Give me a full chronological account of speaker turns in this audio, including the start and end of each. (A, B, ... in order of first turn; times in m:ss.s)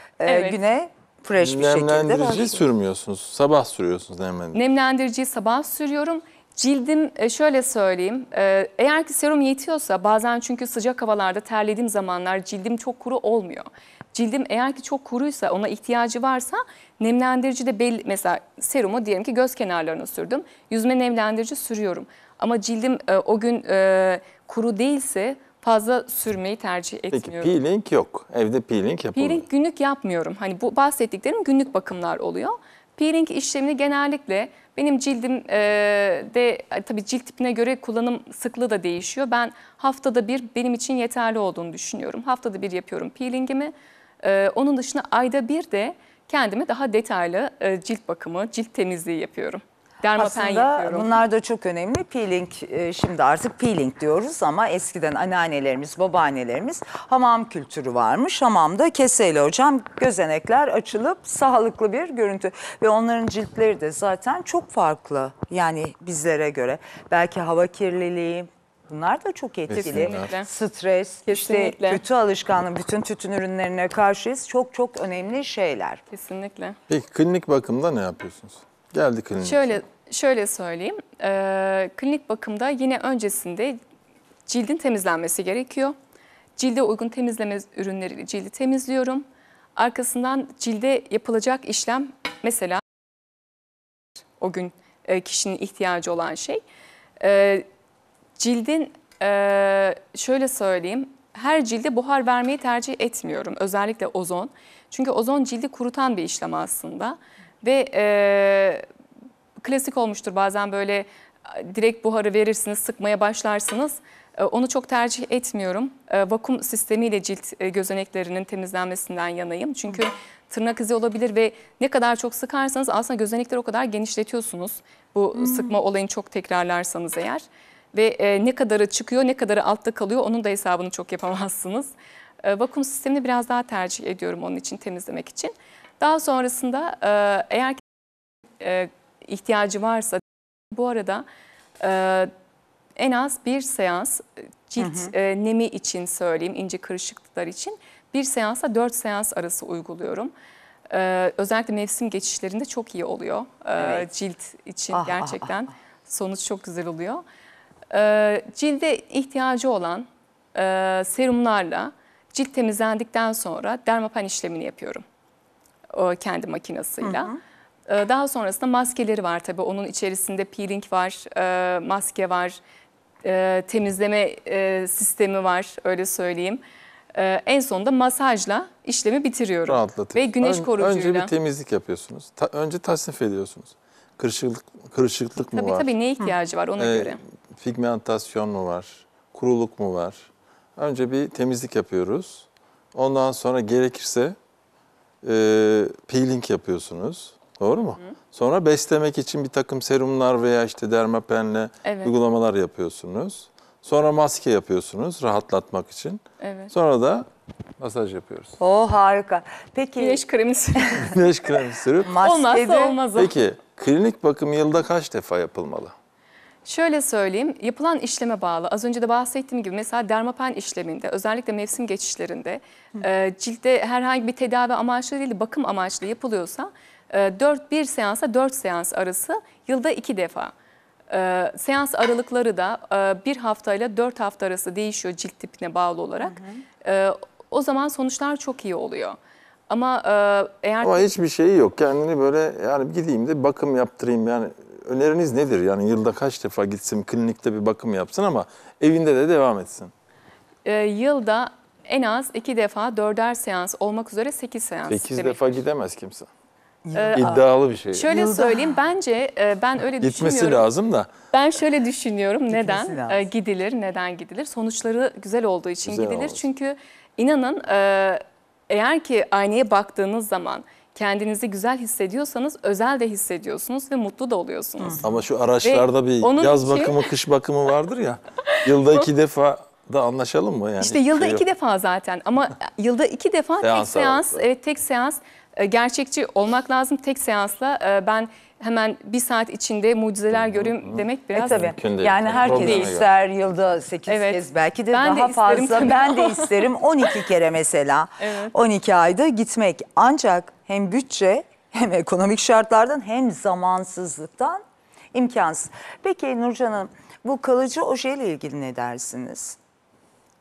0:00.2-0:02.7 A
0:00.3-0:00.6 B
0:01.4-0:04.6 C
0:04.5-0:27.5 B
0:27.1-0:29.4 C
0:29.2-0:51.2 B
0:50.2-1:16.0 A
1:09.7-1:10.3 C
1:09.7-1:10.5 B
1:11.3-1:12.0 B
1:16.1-1:16.8 B
1:16.9-1:19.8 C
1:19.4-1:23.8 B
1:24.5-1:26.0 B
1:26.6-1:29.2 B
1:29.8-1:32.8 B
1:34.4-1:36.6 B
1:37.2-1:37.7 B
1:38.4-1:48.9 B
1:49.6-2:17.8 B
2:05.3-2:05.8 A
2:18.6-2:21.2 B
2:21.8-2:22.3 B
2:23.0-2:30.3 B
2:24.8-2:25.1 A
2:30.9-2:37.2 B
2:33.8-2:34.1 A
2:34.9-2:35.6 A
2:37.9-2:45.0 B
2:45.9-2:47.3 B
2:47.0-2:47.4 A
2:47.9-2:52.6 B
2:53.2-2:56.6 B
2:57.1-3:01.3 B
2:59.7-3:05.9 C
3:05.5-3:07.2 B
3:06.8-3:14.4 C
3:15.2-3:27.3 C
3:21.8-3:22.1 B
3:26.4-3:26.7 B
3:27.8-3:28.6 C
3:28.6-3:30.2 A
3:30.0-3:31.2 B
3:30.8-3:31.1 A
3:31.0-3:32.1 C
3:32.0-3:33.0 A
3:32.2-3:33.3 B
3:33.2-3:35.9 C
3:36.6-3:50.5 B
3:51.1-3:59.2 B
3:56.2-3:56.6 A
3:59.7-4:01.1 B
4:00.8-4:09.9 C
4:10.6-4:15.4 B
4:14.9-4:16.3 C
4:16.8-4:17.4 A
4:17.0-4:17.4 B
4:17.2-4:18.1 C
4:18.0-4:20.6 B
4:18.0-4:18.8 A
4:20.0-4:21.1 C
4:21.3-4:35.0 B
4:22.5-4:23.3 A
4:25.8-4:26.4 C
4:34.8-4:35.2 A
4:35.0-4:41.4 C
4:35.6-4:37.0 B
4:38.4-4:39.0 B
4:40.8-4:51.7 B
4:43.6-4:44.4 C
4:50.3-4:53.1 C
4:51.4-5:04.6 A
4:52.4-4:52.9 B
4:54.1-4:56.7 B
4:58.2-4:58.5 B
5:05.1-5:09.6 A